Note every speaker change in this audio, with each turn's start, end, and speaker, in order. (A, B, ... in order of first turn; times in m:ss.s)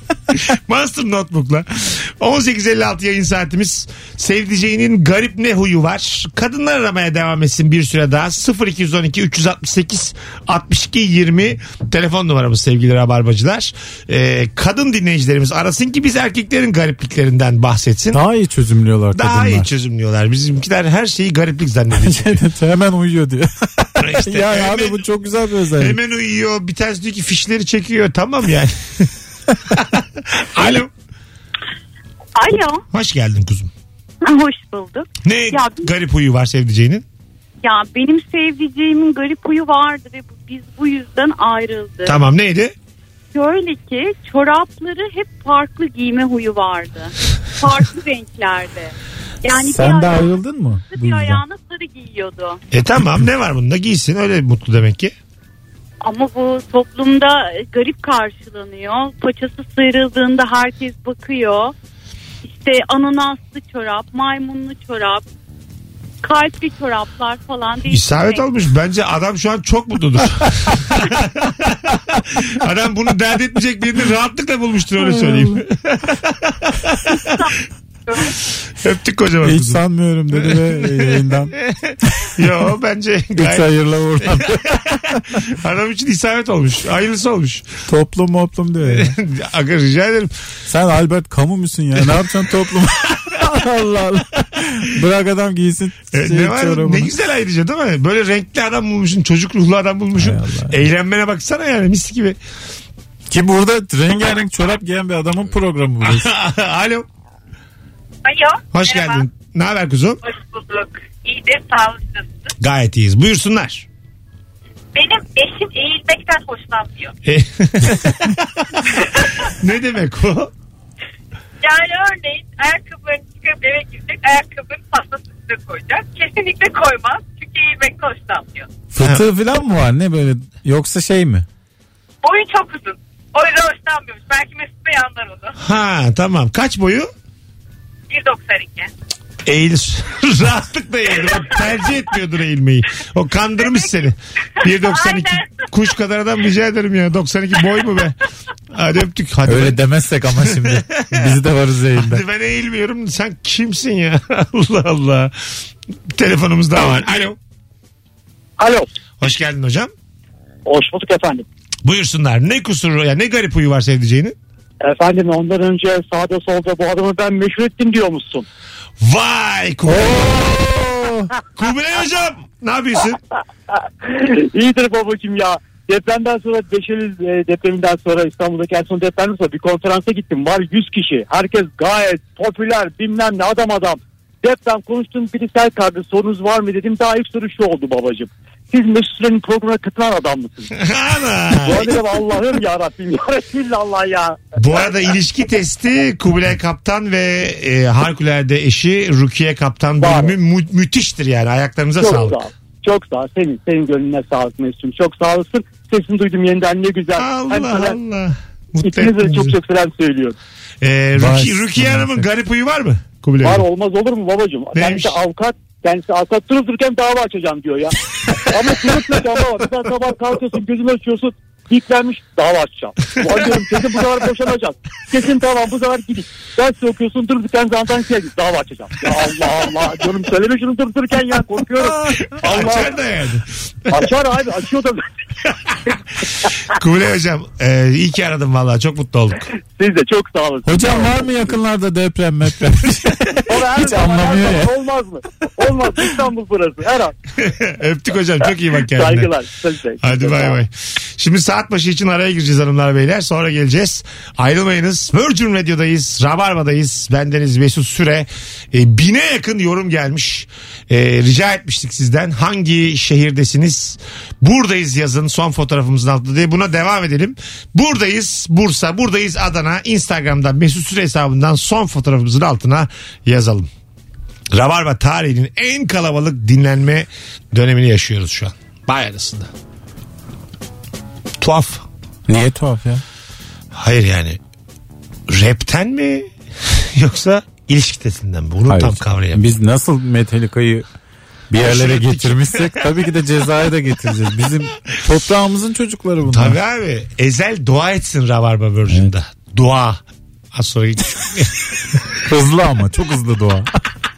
0:00.3-0:18.2 A
0:18.1-0:19.6 B
0:19.1-0:22.4 A
0:22.0-0:26.0 B
0:24.0-0:25.0 A
0:25.8-0:29.1 A
0:29.7-0:30.9 A
0:32.4-0:32.8 C
0:32.9-0:33.7 A
0:34.2-0:35.9 C
0:35.2-0:37.0 A
0:37.6-0:42.2 C
0:42.0-0:42.7 A
0:43.3-0:52.6 C
0:49.6-0:51.4 B
0:52.7-0:55.1 A
0:56.0-1:01.7 C
1:02.4-1:05.2 C
1:06.2-1:08.4 C
1:07.8-1:17.5 A
1:15.2-1:15.5 B
1:18.7-1:19.8 A
1:19.4-1:21.5 B
1:20.3-1:27.6 A
1:23.4-1:25.4 B
1:27.8-1:29.1 B
1:28.8-1:30.3 A
1:30.7-1:37.1 B
1:36.1-1:42.4 A
1:40.2-1:40.8 B
1:43.3-1:46.3 B
1:46.0-1:47.0 A
1:48.2-1:49.2 D
1:48.7-1:50.2 A
1:50.2-1:52.5 D
1:52.6-1:53.8 A
1:54.9-1:57.1 D
1:57.2-2:00.5 A
2:01.6-2:08.7 D
2:08.9-2:11.4 B
2:09.0-2:09.2 A
2:12.2-2:15.5 D
2:15.6-2:17.1 A
2:18.1-2:18.9 D
2:19.4-2:28.2 A
2:23.6-2:23.9 D
2:24.6-2:25.7 D
2:28.7-2:29.8 A
2:29.4-2:32.2 B
2:30.3-2:31.4 A
2:31.9-2:35.3 A
2:36.1-2:37.4 A
2:38.6-2:38.9 E
2:39.2-2:39.9 A
2:40.6-2:41.4 E
2:41.8-2:44.3 A
2:44.8-2:48.4 E
2:49.0-2:50.9 A
2:49.9-2:51.3 B
2:51.5-2:53.2 A
2:54.0-3:10.7 E
3:10.7-3:11.9 A
3:11.6-3:14.6 E
3:14.6-3:22.4 A
3:20.0-3:20.4 E
3:22.0-3:28.0 E
3:27.2-3:29.5 A
3:28.8-3:30.4 E
3:30.8-3:33.6 A
3:31.2-3:32.2 B
3:33.4-3:37.9 E
3:34.7-3:35.2 A
3:38.5-3:52.9 E
3:51.8-3:54.0 A
3:53.9-3:55.0 E
3:56.7-3:59.5 A
3:59.8-4:01.6 E
4:00.6-4:04.7 B
4:03.5-4:07.1 E
4:07.4-4:09.3 A
4:08.9-4:10.6 E
4:10.0-4:33.7 A
4:34.5-4:39.5 A
4:41.4-4:41.8 A
4:42.3-4:43.0 B
4:43.7-4:44.4 A
4:45.3-4:49.5 A
4:48.7-4:50.8 B
4:51.5-4:56.6 B
4:51.6-4:53.1 A
4:56.3-5:00.0 A
5:00.5-5:02.0 A
5:02.2-5:03.7 B